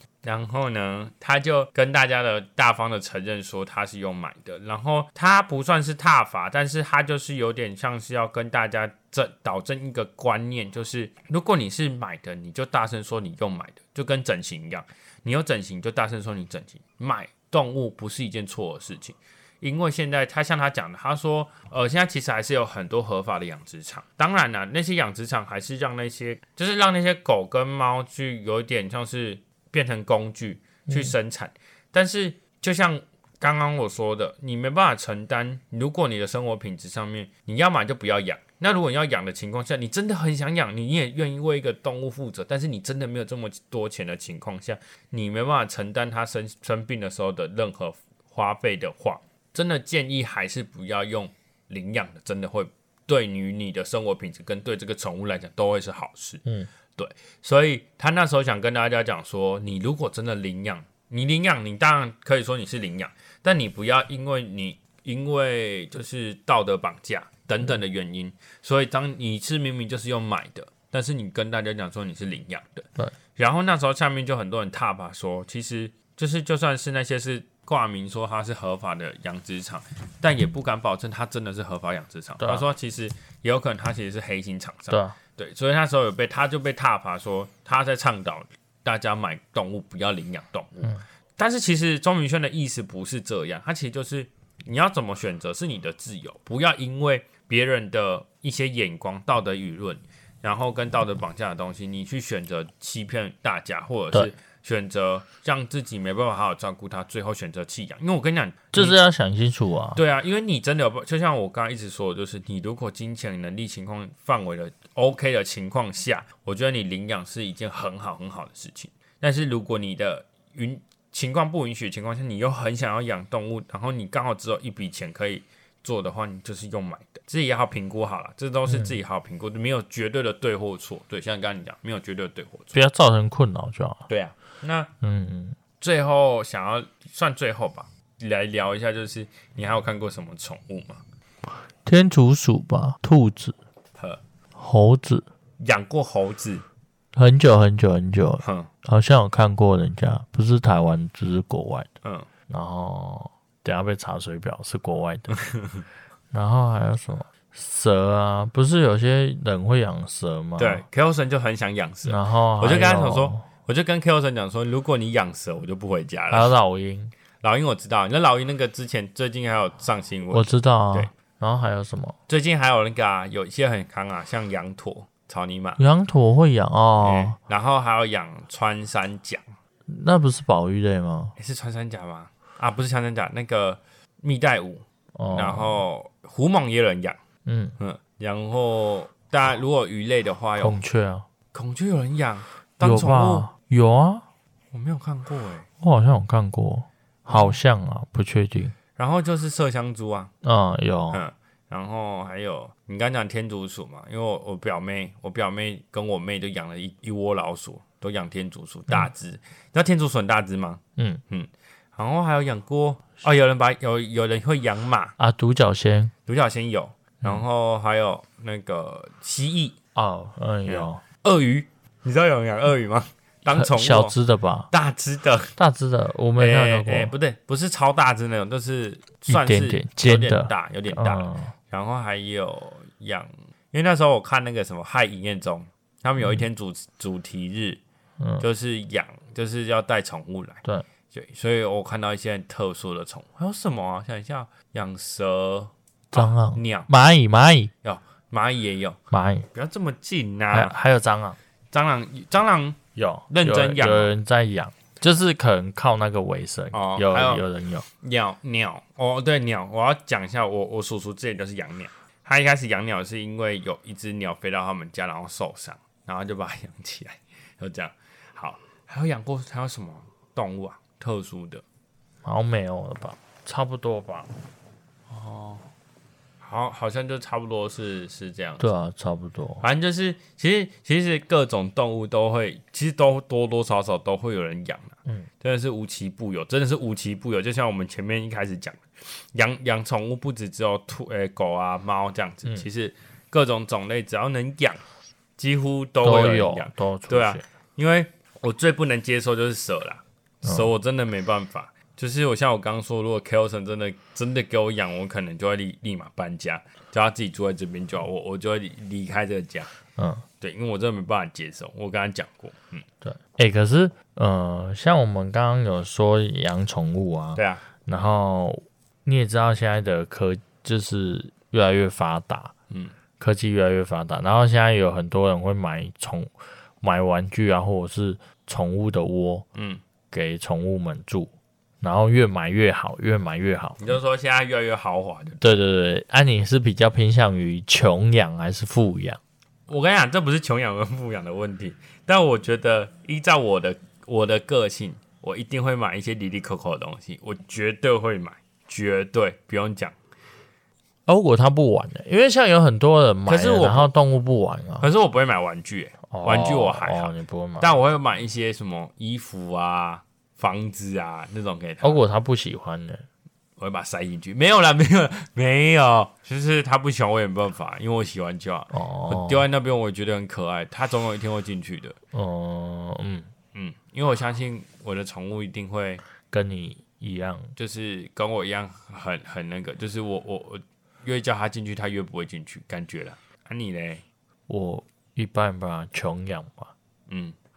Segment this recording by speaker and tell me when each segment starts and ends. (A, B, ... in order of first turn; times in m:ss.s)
0:00.2-0:56.4 A
0:30.9-0:31.1 B
0:57.0-1:49.0 A
1:22.4-1:22.6 B
1:24.9-1:25.2 B
1:48.7-1:50.0 B
1:50.0-2:12.8 A
2:08.7-2:08.9 B
2:12.7-2:14.0 B
2:14.1-2:14.9 A
2:15.0-2:15.6 B
2:15.8-2:21.0 A
2:21.8-2:23.6 B
2:24.6-2:25.2 B
2:25.6-2:26.6 A
2:27.1-2:31.9 B
2:28.4-2:28.7 A
2:32.5-2:35.3 B
2:35.3-2:35.8 A
2:36.3-2:40.8 B
2:40.6-2:46.5 A
2:42.0-2:43.5 B
2:46.3-2:47.1 B
2:47.4-2:51.1 A
2:50.3-2:52.2 B
2:52.3-2:55.8 A
2:55.8-2:57.4 B
2:57.0-2:59.5 A
2:59.9-3:01.3 B
3:01.4-3:07.2 A
3:05.1-3:05.8 B
3:07.4-3:07.8 B
3:07.8-3:10.8 A
3:10.6-3:11.2 B
3:11.5-3:13.5 A
3:12.8-3:14.2 B
3:14.7-3:15.6 A
3:15.8-3:18.7 B
3:17.3-3:17.6 A
3:19.0-3:20.3 A
3:20.4-3:21.2 B
3:21.1-3:35.1 A
3:35.2-3:36.1 B
3:36.2-3:39.8 A
3:39.9-3:41.0 B
3:40.6-3:44.2 A
3:43.5-3:44.7 B
3:44.7-3:45.5 A
3:45.6-3:47.1 B
3:46.4-3:57.8 A
3:49.3-3:51.5 B
3:58.4-4:06.9 A
4:06.1-4:07.7 B
4:07.8-4:09.0 A
4:09.1-4:09.5 B
4:09.5-4:10.7 A
4:10.5-4:11.4 B
4:11.7-4:14.1 A
4:13.0-4:17.8 B
4:16.7-4:17.4 A
4:18.0-4:31.6 A
4:32.2-4:34.3 B
4:35.1-4:35.6 A
4:36.4-4:38.7 A
4:38.6-4:39.6 B
4:39.6-4:54.8 A
4:55.4-5:09.7 A
4:56.0-4:57.4 B
5:00.4-5:00.7 B
5:10.0-5:10.2 B
5:10.4-5:12.8 A
5:13.0-5:22.5 B
5:17.4-5:17.6 A
5:23.2-5:29.4 B
5:29.5-5:29.8 A
5:30.1-5:33.9 B
5:33.8-5:35.4 A
5:35.4-5:39.2 B
5:39.7-5:49.9 A
5:51.1-5:54.8 B
5:53.3-5:53.9 A
5:54.8-6:02.0 A
5:56.1-5:57.7 B
6:01.8-6:03.0 B
6:03.6-6:12.0 A
6:08.7-6:09.4 B
6:12.1-6:13.3 B
6:13.5-6:16.0 A
6:16.3-6:17.5 B
6:17.6-6:24.0 A
6:24.5-6:26.7 B
6:27.1-6:27.4 A